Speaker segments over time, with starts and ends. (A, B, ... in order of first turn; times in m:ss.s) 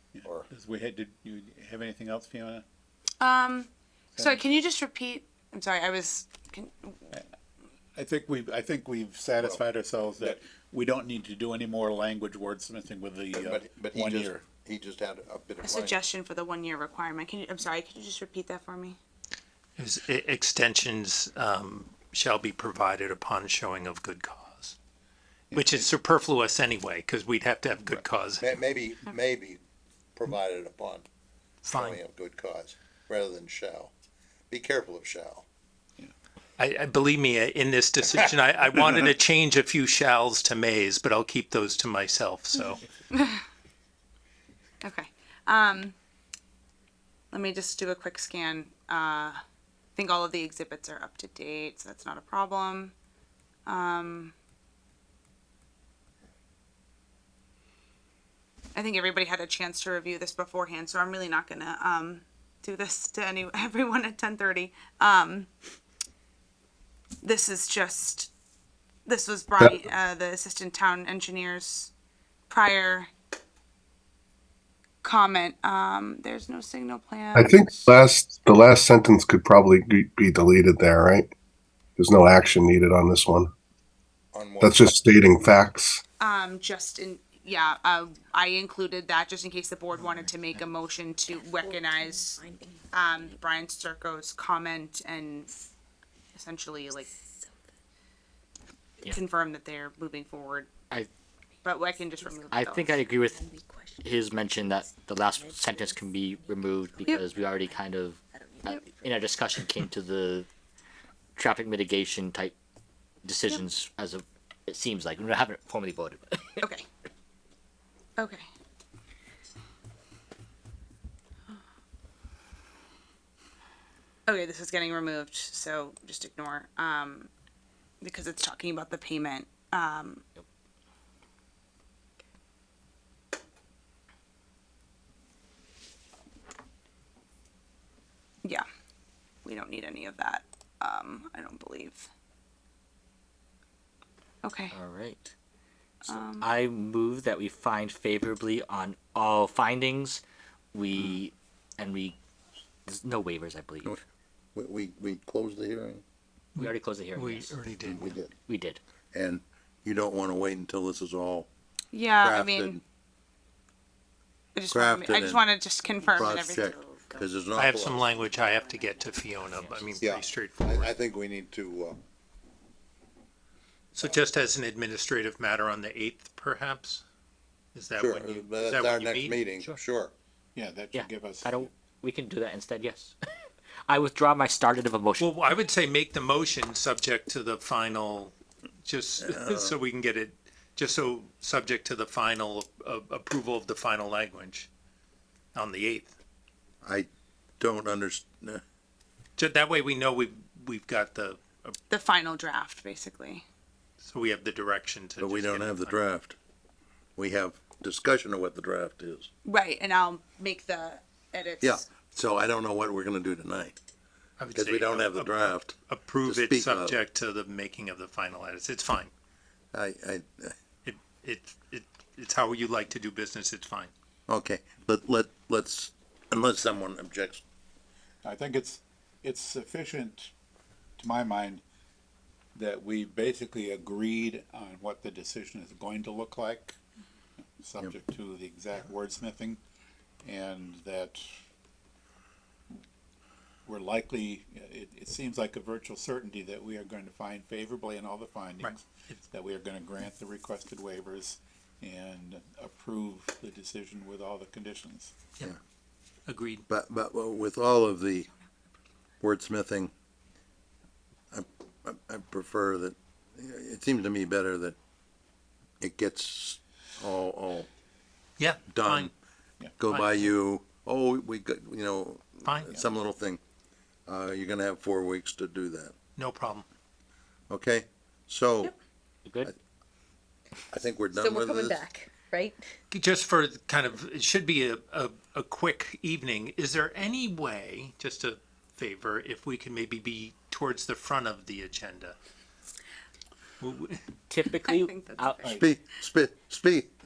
0:00.2-0:02.6 A
0:00.2-0:00.5 B
0:03.2-0:07.1 C
0:04.2-0:04.4 A
0:08.0-0:14.4 A
0:13.3-0:16.0 B
0:15.6-0:19.0 C
0:19.8-0:24.8 D
0:25.5-0:25.9 A
0:25.5-0:28.5 D
0:28.4-0:29.6 B
0:30.2-0:31.0 B
0:31.6-0:32.0 D
0:31.7-0:33.9 B
0:34.5-0:35.4 B
0:36.6-0:42.8 D
0:42.7-0:43.4 C
0:44.8-0:46.0 C
0:47.3-0:49.4 C
0:50.0-0:52.9 C
0:53.7-0:54.3 C
0:58.8-1:05.5 C
1:07.2-1:08.3 C
1:09.1-1:11.9 C
1:12.5-1:13.1 C
1:15.0-1:17.9 C
1:17.4-1:21.3 E
1:22.0-1:23.5 E
1:24.3-1:24.8 B
1:24.6-1:26.0 E
1:26.2-1:32.4 C
1:31.3-1:33.7 F
1:32.9-1:35.5 C
1:36.4-1:37.1 C
1:37.0-1:37.6 F
1:39.0-1:40.7 C
1:41.6-1:43.0 C
1:42.2-1:47.8 F
1:42.5-1:43.4 G
1:44.0-1:50.5 G
1:48.3-1:49.9 F
1:51.4-1:52.5 G
1:53.2-1:56.6 G
1:56.6-1:56.9 C
1:58.2-1:58.4 C
2:04.3-2:07.3 C
2:08.0-2:10.2 C
2:19.4-2:22.1 C
2:24.4-2:24.7 C
2:24.7-2:25.3 G
2:26.0-2:26.5 C
2:26.1-2:30.2 G
2:30.7-2:32.2 G
2:32.9-2:33.9 G
2:34.6-2:36.0 B
2:36.6-2:38.1 D
2:36.6-2:37.6 G
2:37.9-2:38.3 B
2:38.4-2:38.8 G
2:39.1-2:41.5 B
2:41.9-2:42.8 C
2:42.2-2:42.8 B
2:44.6-2:47.2 C
2:44.7-2:45.4 B
2:46.0-2:46.6 F
2:46.2-2:48.1 B
2:47.6-2:50.9 D
2:49.5-2:49.9 G
2:50.0-2:52.0 B
2:54.0-2:57.0 D
2:57.8-2:59.4 D
2:58.0-3:00.1 B
3:00.6-3:01.7 A
3:00.9-3:03.1 G
3:03.9-3:05.3 G
3:05.2-3:14.7 D
3:09.2-3:09.8 B
3:15.6-3:16.2 D
3:16.8-3:17.1 B
3:17.6-3:18.6 B
3:19.4-3:21.8 D
3:21.9-3:23.4 C
3:24.0-3:26.0 D
3:25.2-3:26.4 B
3:27.2-3:29.3 B
3:29.4-3:31.8 C
3:31.6-3:33.8 B
3:34.4-3:39.1 D
3:34.6-3:35.7 B
3:36.2-3:37.0 B
3:39.7-3:40.6 B
3:40.8-3:43.9 D
3:44.3-3:47.4 B
3:48.2-3:50.3 A
3:51.0-3:51.6 A
3:52.6-3:56.8 A
3:57.6-3:59.6 A
4:00.2-4:01.2 A
4:03.7-4:15.1 A
4:08.6-4:09.2 D
4:16.3-4:16.6 D
4:16.7-4:18.3 B
4:19.2-4:19.9 B
4:21.3-4:24.8 B
4:25.8-4:27.7 B
4:28.4-4:29.1 D
4:28.7-4:29.1 B
4:29.8-4:33.4 B
4:29.9-4:30.3 D
4:32.4-4:32.8 D
4:34.1-4:35.9 B
4:36.2-4:36.7 D
4:37.5-4:38.7 B
4:40.7-4:41.9 B
4:41.1-4:42.6 F
4:42.9-4:52.2 D
4:53.6-4:54.0 D
4:54.3-4:55.5 G
4:54.7-4:55.6 C
4:55.4-4:55.7 A
4:55.5-4:56.9 B